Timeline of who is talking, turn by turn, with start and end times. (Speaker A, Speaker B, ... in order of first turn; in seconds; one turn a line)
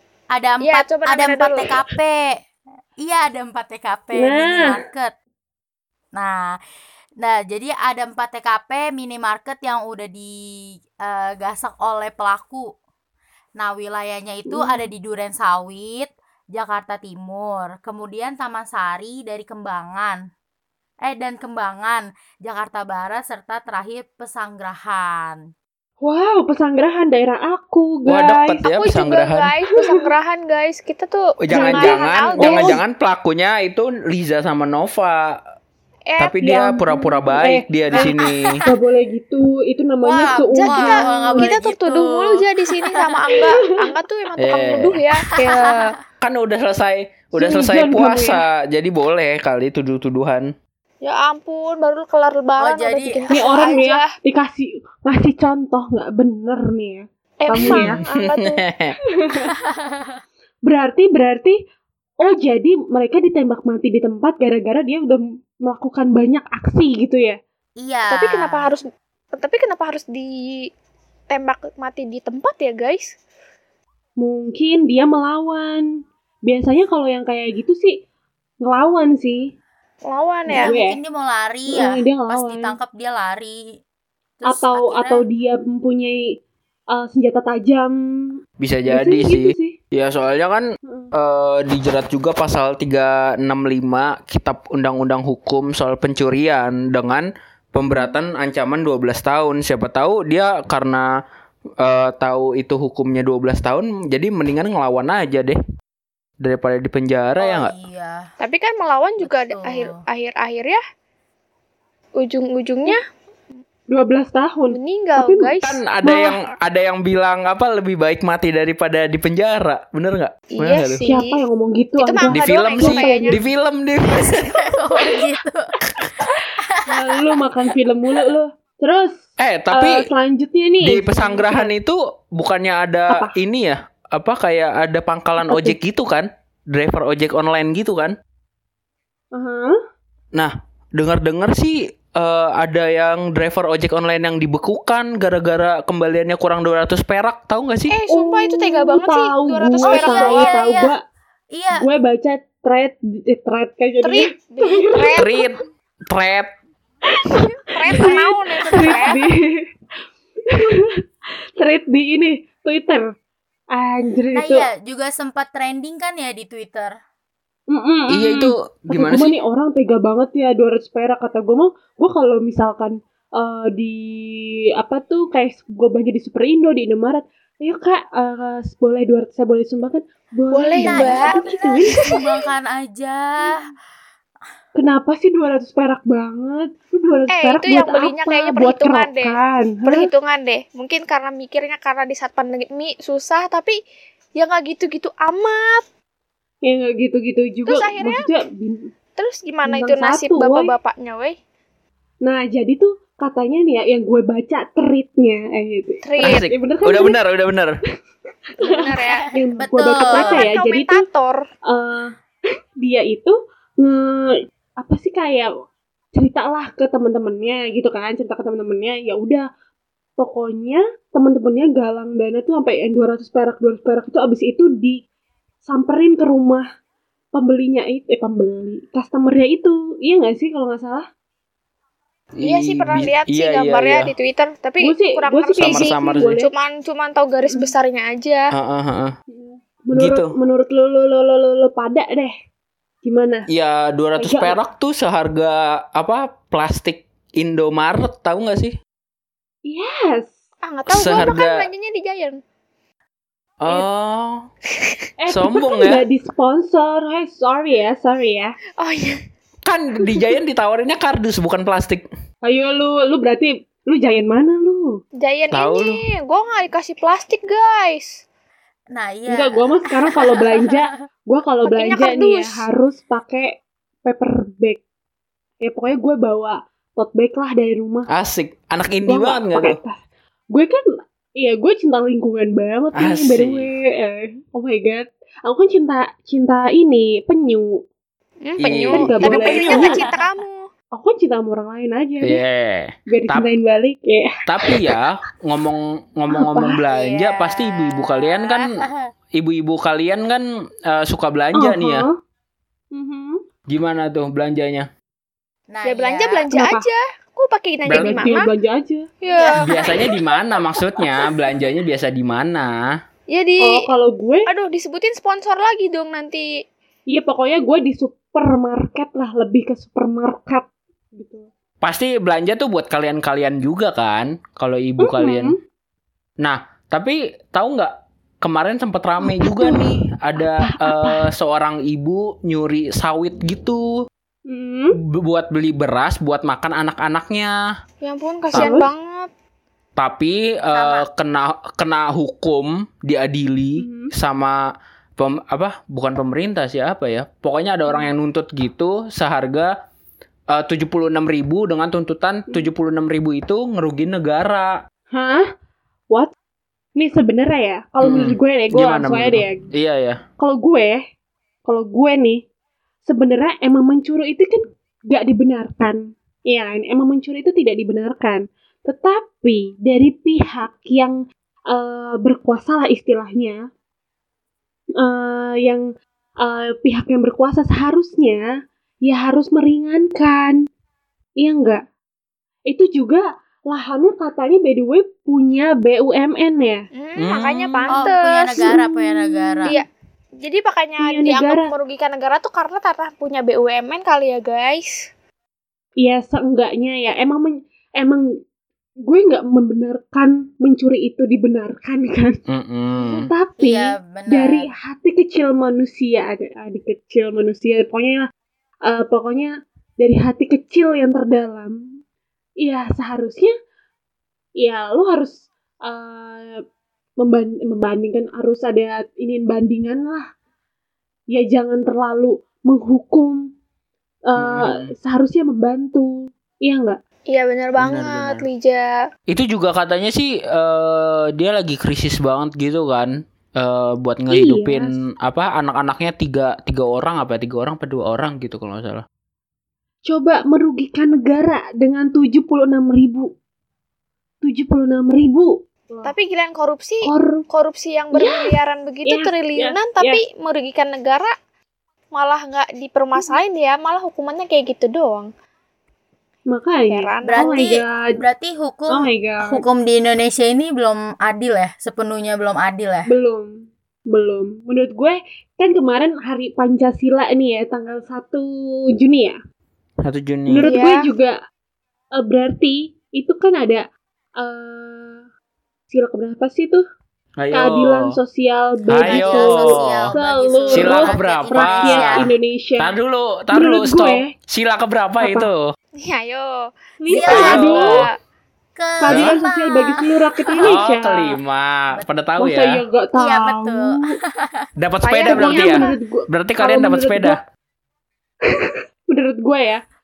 Speaker A: 0.3-2.4
Speaker B: 0.6-1.7
Speaker A: 3.0-5.1
Speaker C: 4.2-4.8
Speaker A: 6.1-6.6
Speaker A: 7.2-12.7
Speaker A: 13.6-20.2
Speaker C: 14.5-14.8
Speaker A: 21.0-25.5
Speaker C: 26.0-28.6
Speaker D: 28.1-29.5
Speaker B: 28.6-32.8
Speaker D: 31.4-35.4
Speaker C: 31.5-32.8
Speaker B: 36.1-36.4
Speaker D: 36.2-38.6
Speaker C: 36.4-38.0
Speaker A: 37.9-38.6
Speaker C: 38.7-41.5
Speaker A: 40.0-43.5
Speaker B: 40.5-46.0
Speaker C: 43.4-43.6
Speaker D: 44.4-45.0
Speaker A: 45.4-46.0
Speaker D: 46.2-50.5
Speaker C: 47.4-48.4
Speaker B: 51.0-54.1
Speaker A: 52.6-53.6
Speaker C: 53.3-58.0
Speaker B: 57.4-58.6
Speaker D: 57.6-59.0
Speaker C: 59.2-59.6
Speaker A: 59.6-60.2
Speaker C: 60.7-61.6
Speaker C: 62.2-67.4
Speaker A: 67.8-68.7
Speaker B: 68.1-70.7
Speaker B: 71.3-73.1
Speaker C: 74.2-75.9
Speaker C: 76.5-78.0
Speaker C: 78.6-79.5
Speaker B: 80.1-80.8
Speaker C: 80.5-81.0
Speaker A: 80.5-83.8
Speaker C: 81.7-82.8
Speaker A: 84.4-85.2
Speaker C: 84.5-86.3
Speaker C: 86.9-89.8
Speaker D: 88.6-101.1
Speaker C: 90.8-91.1
Speaker D: 101.8-105.6
Speaker D: 106.4-107.7
Speaker A: 107.4-108.3
Speaker B: 108.4-110.8
Speaker A: 109.2-110.0
Speaker B: 112.2-113.0
Speaker C: 113.9-115.5
Speaker B: 114.7-115.8
Speaker D: 115.6-121.0
Speaker C: 116.0-116.4
Speaker B: 120.5-121.4
Speaker C: 121.0-123.5
Speaker B: 122.0-123.4
Speaker D: 122.3-124.6
Speaker A: 124.2-125.7
Speaker A: 126.6-127.1
Speaker C: 126.9-129.2
Speaker D: 129.4-130.0
Speaker C: 129.7-131.7
Speaker D: 130.8-138.2
Speaker C: 133.1-133.3
Speaker C: 135.4-135.8
Speaker C: 139.3-139.8
Speaker D: 140.3-148.0
Speaker B: 147.9-150.7
Speaker C: 148.1-151.0
Speaker A: 149.8-151.0
Speaker A: 151.5-151.9
Speaker C: 151.8-155.4
Speaker B: 154.0-155.3
Speaker D: 155.2-156.5
Speaker C: 157.2-159.7
Speaker B: 157.6-159.3
Speaker C: 160.5-161.0
Speaker C: 161.6-163.1
Speaker C: 163.7-164.7
Speaker A: 164.3-166.9
Speaker C: 167.7-182.2
Speaker D: 168.1-169.4
Speaker B: 180.5-181.3
Speaker A: 180.8-183.6
Speaker C: 184.8-190.1
Speaker B: 187.3-193.8
Speaker B: 194.4-195.8
Speaker C: 196.6-198.8
Speaker B: 197.7-198.3
Speaker B: 199.2-201.4
Speaker C: 199.7-200.7
Speaker C: 202.2-207.2
Speaker B: 206.0-206.5
Speaker D: 206.2-207.8
Speaker C: 208.6-211.0
Speaker B: 208.6-209.3
Speaker A: 209.6-210.5
Speaker B: 209.8-211.5
Speaker C: 211.7-212.1
Speaker C: 212.8-215.5
Speaker C: 216.2-219.5
Speaker C: 220.2-225.0
Speaker C: 225.7-226.7
Speaker C: 227.3-231.1
Speaker D: 232.4-234.1
Speaker B: 232.4-238.5
Speaker C: 234.8-236.5
Speaker D: 235.6-236.3
Speaker D: 238.5-239.1
Speaker C: 239.3-242.3
Speaker D: 239.9-240.3
Speaker C: 243.0-243.5
Speaker D: 243.5-248.8
Speaker C: 244.2-244.6
Speaker C: 249.7-250.3
Speaker B: 250.6-252.4
Speaker D: 250.9-251.7
Speaker D: 253.6-254.5
Speaker C: 255.2-258.6
Speaker D: 255.3-256.0
Speaker B: 258.8-259.2
Speaker D: 259.7-262.1
Speaker C: 262.4-265.0
Speaker B: 265.2-268.2
Speaker D: 265.5-266.1
Speaker A: 268.9-270.8
Speaker C: 269.3-274.8
Speaker B: 271.6-272.7
Speaker C: 275.6-278.1
Speaker D: 278.1-279.8
Speaker C: 279.1-280.0
Speaker C: 280.5-280.9
Speaker C: 281.4-287.8
Speaker D: 282.9-283.7
Speaker B: 288.4-290.7
Speaker D: 288.6-289.9
Speaker C: 288.9-290.0
Speaker A: 289.8-290.2
Speaker C: 290.9-292.4
Speaker D: 292.2-293.5
Speaker C: 293.1-295.0
Speaker D: 294.5-298.7
Speaker C: 296.3-296.8
Speaker B: 296.9-298.6
Speaker A: 298.8-299.1
Speaker D: 299.3-302.1
Speaker C: 301.6-302.1
Speaker C: 302.9-303.4
Speaker D: 303.7-304.9
Speaker A: 305.7-306.5
Speaker B: 305.9-308.5
Speaker C: 306.5-306.9
Speaker D: 307.9-308.3
Speaker C: 307.9-309.1
Speaker B: 309.2-310.0
Speaker A: 309.3-309.6
Speaker D: 309.6-312.9
Speaker B: 313.3-313.9
Speaker C: 313.6-314.5
Speaker B: 314.5-316.5
Speaker C: 317.1-321.5
Speaker D: 321.8-325.6
Speaker C: 325.0-325.6
Speaker D: 326.4-333.9
Speaker C: 329.2-331.3
Speaker C: 334.5-335.0
Speaker D: 335.0-337.5
Speaker B: 338.0-339.3
Speaker C: 338.5-338.9
Speaker D: 340.0-344.6
Speaker A: 340.7-341.1
Speaker C: 343.8-344.1
Speaker D: 345.2-349.7
Speaker D: 350.5-354.8
Speaker C: 355.1-355.5
Speaker C: 357.0-359.7
Speaker D: 358.0-360.2
Speaker C: 360.4-361.0
Speaker C: 361.7-362.4
Speaker C: 363.1-373.6
Speaker C: 375.0-375.9
Speaker C: 376.4-378.4
Speaker C: 379.0-380.7
Speaker C: 381.4-381.9
Speaker C: 382.7-386.9
Speaker B: 387.0-388.8
Speaker D: 387.2-387.9
Speaker A: 387.9-389.8
Speaker C: 388.5-389.8
Speaker B: 390.4-395.1
Speaker C: 391.0-391.7
Speaker C: 396.0-398.3
Speaker C: 399.0-402.4
Speaker D: 402.5-403.3
Speaker C: 403.0-408.3
Speaker A: 403.6-404.7
Speaker C: 408.9-412.0
Speaker C: 412.6-413.5
Speaker C: 414.6-416.6
Speaker C: 417.2-420.2
Speaker C: 421.3-423.4
Speaker C: 424.3-427.0
Speaker D: 424.4-424.9
Speaker B: 427.3-429.1
Speaker D: 427.8-428.5
Speaker D: 429.3-439.0
Speaker C: 434.3-434.9
Speaker C: 440.1-443.3
Speaker C: 444.4-446.1
Speaker B: 446.0-451.3
Speaker C: 447.0-447.4
Speaker C: 448.1-448.6
Speaker C: 449.1-450.2
Speaker B: 452.1-455.3
Speaker C: 456.5-458.1
Speaker B: 456.9-457.6
Speaker A: 457.2-463.1
Speaker C: 458.9-459.6
Speaker C: 463.1-463.5
Speaker C: 464.1-469.4
Speaker D: 470.1-470.7
Speaker C: 470.5-471.4
Speaker B: 470.7-471.1
Speaker C: 472.1-473.9
Speaker C: 474.4-475.2
Speaker C: 475.9-476.8
Speaker D: 477.4-478.2
Speaker C: 477.5-482.9
Speaker D: 478.9-480.1
Speaker A: 479.0-482.3
Speaker D: 480.7-482.2
Speaker D: 482.8-485.7
Speaker C: 483.5-484.3
Speaker C: 485.2-485.5
Speaker B: 486.0-486.5
Speaker C: 487.0-488.1
Speaker B: 487.1-488.1
Speaker A: 487.1-487.9
Speaker D: 487.3-488.1
Speaker A: 488.8-490.8
Speaker C: 489.0-491.4
Speaker D: 489.1-489.4
Speaker D: 490.6-492.8
Speaker C: 492.4-494.1
Speaker A: 493.1-494.7
Speaker D: 494.8-497.4
Speaker B: 495.1-496.0
Speaker C: 495.2-497.4
Speaker C: 498.4-499.8